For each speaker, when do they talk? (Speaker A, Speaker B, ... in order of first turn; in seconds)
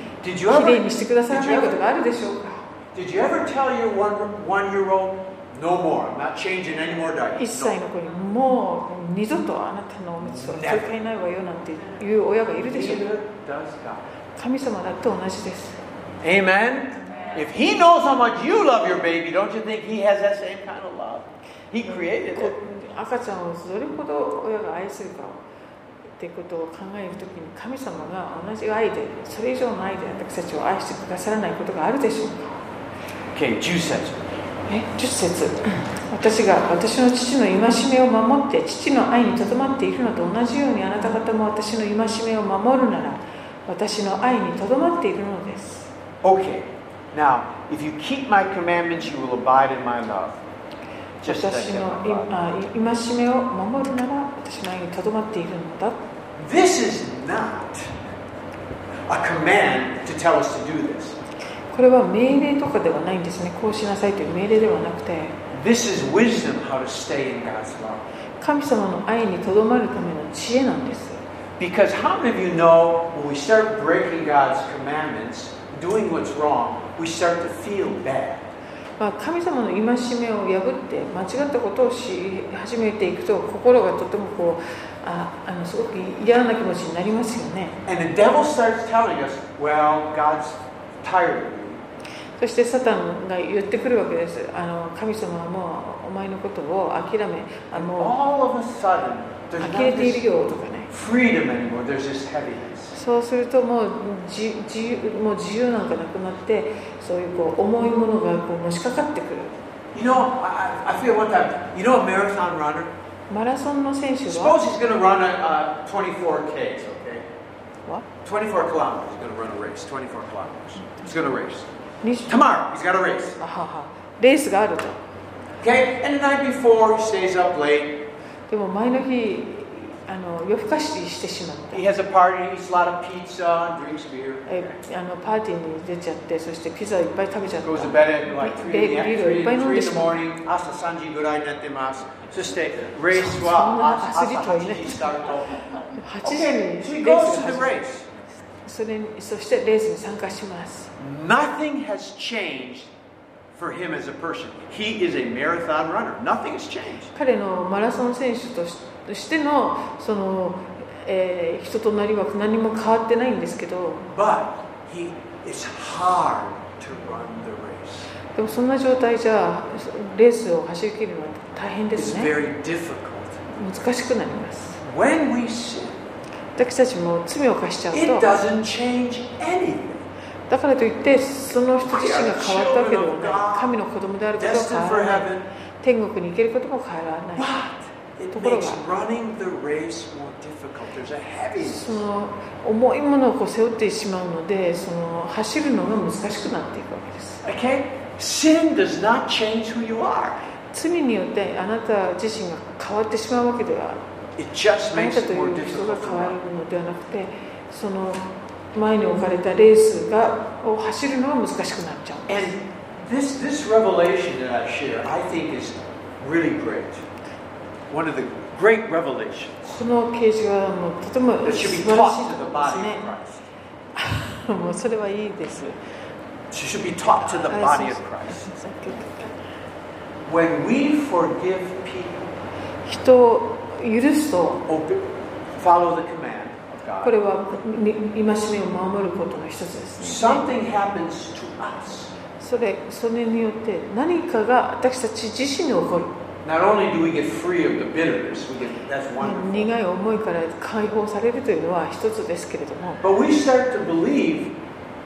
Speaker A: 0.2-1.8, 2.9-7.8, 10.2-11.0, 12.6-14.1, 16.2-22.5, 33.3-34.3, 46.2-50.4, 51.2-52.3, 56.4-58.0, 59.1-61.2, 65.5-68.1, 71.6-78.5, 87.9-91.8, 97.7-100.3, 100.9-103.0, 109.9-112.9, 114.3-117.3, 118.2-121.7, 122.3-123.4, 125.6-128.1, 131.7-134.7, 137.6-145.7, 146.2-148.1, 151.0-152.9, 153.5-157.1, 164.1-168.1, 172.0-173.5, 174.8-176.1, 177.9-180.0, 181.8-183.7, 184.4-185.5, 187.4-192.0, 197.4-200.4, 204.4-206.4, 212.3-217.1, 217.9-219.8, 221.4-223.5, 226.5-228.5, 230.3-232.3, 234.7-237.2, 240.0-242.1, 246.4-249.7, 253.0-254.5
Speaker B: 0.5-2.7, 7.3-13.1, 14.4-15.8, 21.9-25.4, 26.2-32.6, 34.7-45.9, 51.2-56.0, 61.7-65.4, 68.4-71.2, 79.0-87.8, 92.4-98.1, 99.6-100.9, 102.9-109.5, 113.3-114.6, 122.0-122.4, 123.4-125.0, 128.5-131.8, 134.5-140.2, 143.1-145.2, 146.0-147.8, 148.6-150.9, 157.1-164.1, 168.3-172.3, 173.5-174.8, 176.6-178.4, 180.5-185.3, 185.8-187.5, 188.3-188.9, 191.6-197.4, 200.7-204.0, 204.9-212.5, 219.7-223.1, 224.0-225.8, 227.2-229.3, 232.8-234.7, 237.0-240.5, 242.4-246.2, 249.2-253.0